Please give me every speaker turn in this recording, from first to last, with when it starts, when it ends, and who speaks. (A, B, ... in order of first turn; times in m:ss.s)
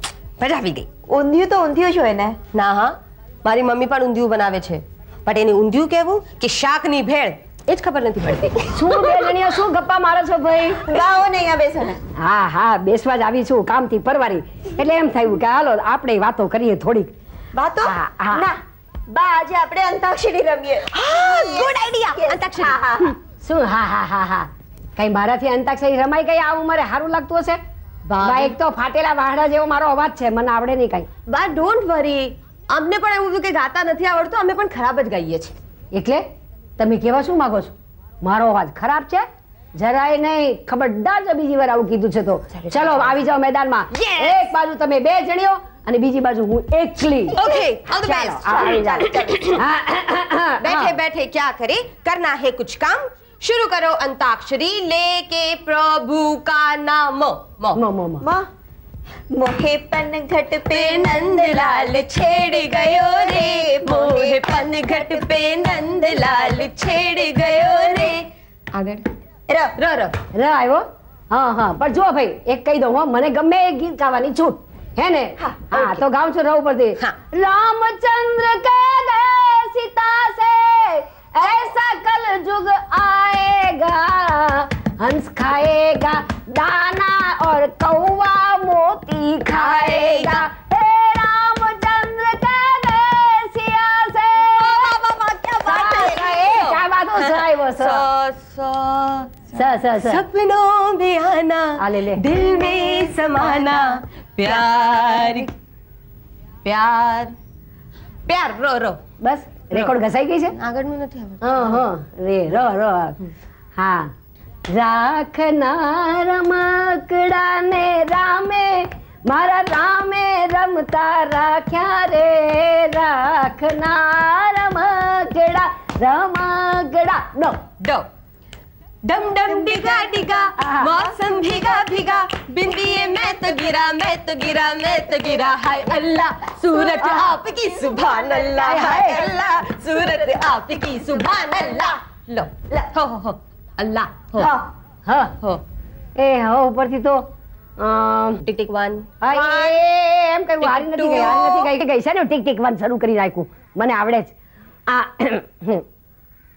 0:00.4-0:00.8 A
0:01.1-0:02.4 B
0:02.5-0:09.2 A
0:08.7-0:10.9 C
0:10.8-0:12.0 B
0:12.2-0:17.1 C
0:17.5-0:23.1 B
0:17.8-0:18.5 C
0:21.0-0:23.0 A
0:23.4-0:27.6 C
0:28.1-0:28.5 A
0:28.2-0:31.1 C
0:31.3-0:35.5 A
0:35.9-0:36.2 C
0:36.8-0:47.4 C
0:42.6-0:43.1 A
0:43.9-0:44.4 A
0:47.3-0:49.6 A
0:48.1-0:49.5 B
0:49.6-0:51.0 C
0:50.6-0:57.8 A
0:57.7-0:58.2 C
0:58.2-0:58.4 B
0:59.3-1:02.0 B
1:00.6-1:09.0 A
1:03.1-1:05.2 B
1:09.5-1:09.8 B
1:09.8-1:10.1 A
1:10.3-1:35.0 C
1:15.4-1:15.7 B
1:29.5-1:30.4 A
1:34.6-1:39.3 A
1:35.6-1:38.0 C
1:39.5-1:40.2 C
1:39.9-1:45.5 A
1:41.8-1:42.2 C
1:46.6-1:47.3 A
1:48.3-1:49.0 A
1:49.2-1:50.5 C
1:50.6-1:51.8 A
1:51.4-1:53.2 C
1:53.8-1:54.1 C
1:54.7-2:07.6 C
2:07.8-2:08.1 A
2:09.0-2:24.5 A
2:09.5-2:10.2 B
2:10.6-2:10.9 C
2:18.4-2:19.4 B
2:18.6-2:19.2 C
2:24.4-2:24.6 B
2:25.1-2:25.3 C
2:26.2-2:27.2 C
2:27.8-2:28.4 C
2:28.4-2:29.8 A
2:29.2-2:34.3 C
2:30.6-2:31.7 A
2:34.9-2:35.8 C